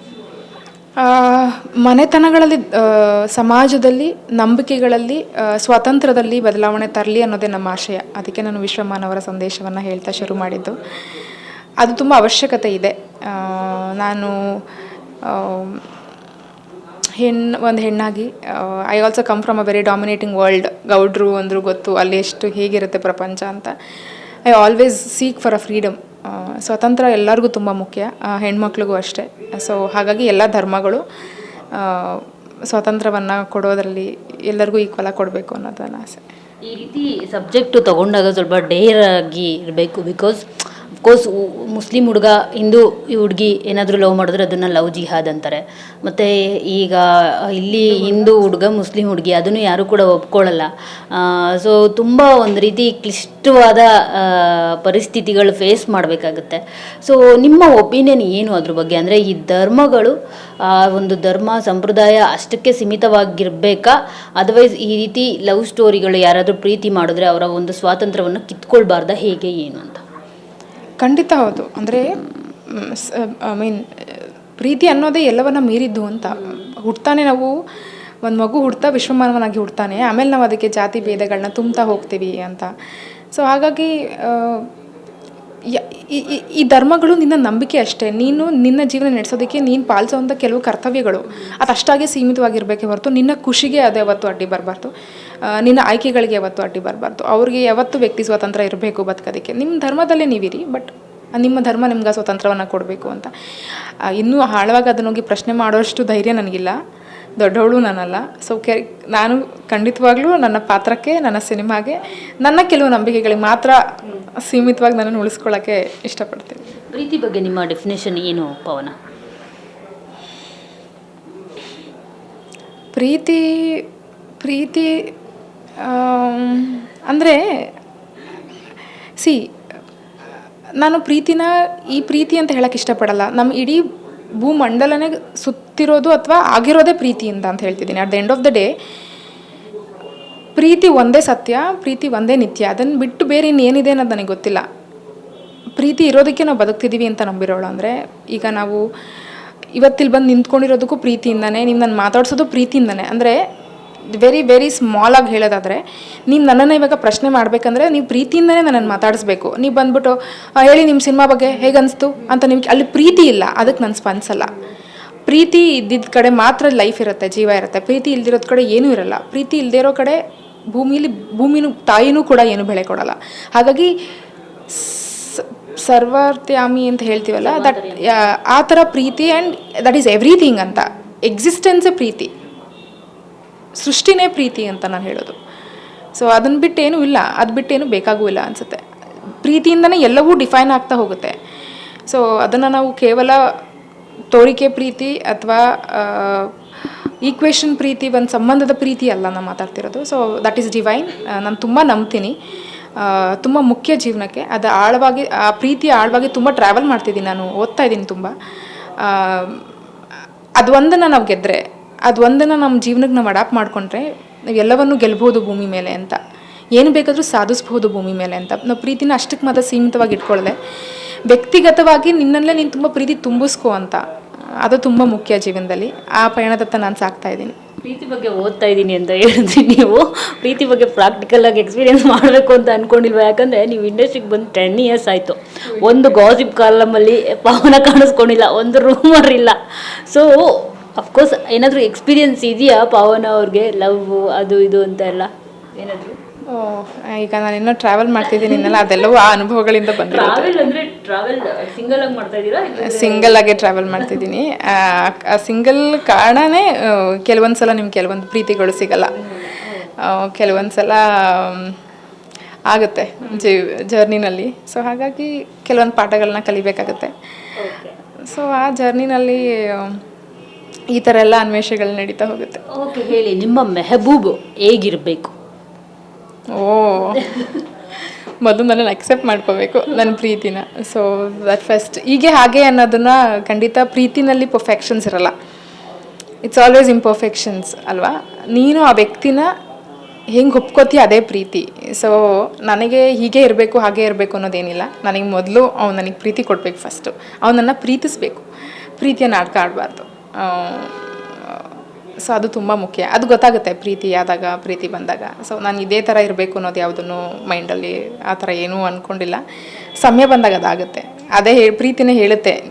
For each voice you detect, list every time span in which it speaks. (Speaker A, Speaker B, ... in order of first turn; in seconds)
Speaker A: 1.0-10.8, 11.8-14.3, 15.2-15.8, 17.2-23.7, 24.4-31.0, 31.7-36.2, 71.0-72.1, 72.7-77.5, 78.2-82.7, 83.3-84.7, 85.7-94.9, 95.5-106.8, 107.4-113.8, 114.4-116.6, 122.9-123.8, 124.4-125.0, 125.8-127.4, 130.8-133.8, 134.4-138.7, 140.6-144.6, 145.8-148.8, 149.8-153.4, 154.1-164.5, 165.3-170.2, 170.7-173.9, 174.7-182.3, 183.8-185.4, 186.1-188.8, 189.4-191.4, 192.1-193.4, 194.3-196.5, 197.2-202.3, 203.0-208.3, 209.0-209.7, 210.6-216.2, 216.8-220.6, 221.3-224.0, 224.6-227.6, 246.5-250.7, 252.8-259.1, 260.0-261.8, 262.7-267.1, 268.2-270.0, 270.9-272.6, 276.5-277.5, 278.4-285.3, 286.4-289.5, 290.3-298.4, 299.0-301.7, 302.2-309.4, 310.0-312.6
Speaker B: 36.7-70.0, 116.9-119.0, 177.3-178.2, 227.8-246.2, 248.3-248.8, 250.0-254.2, 259.1-259.9, 267.6-267.9, 272.7-275.3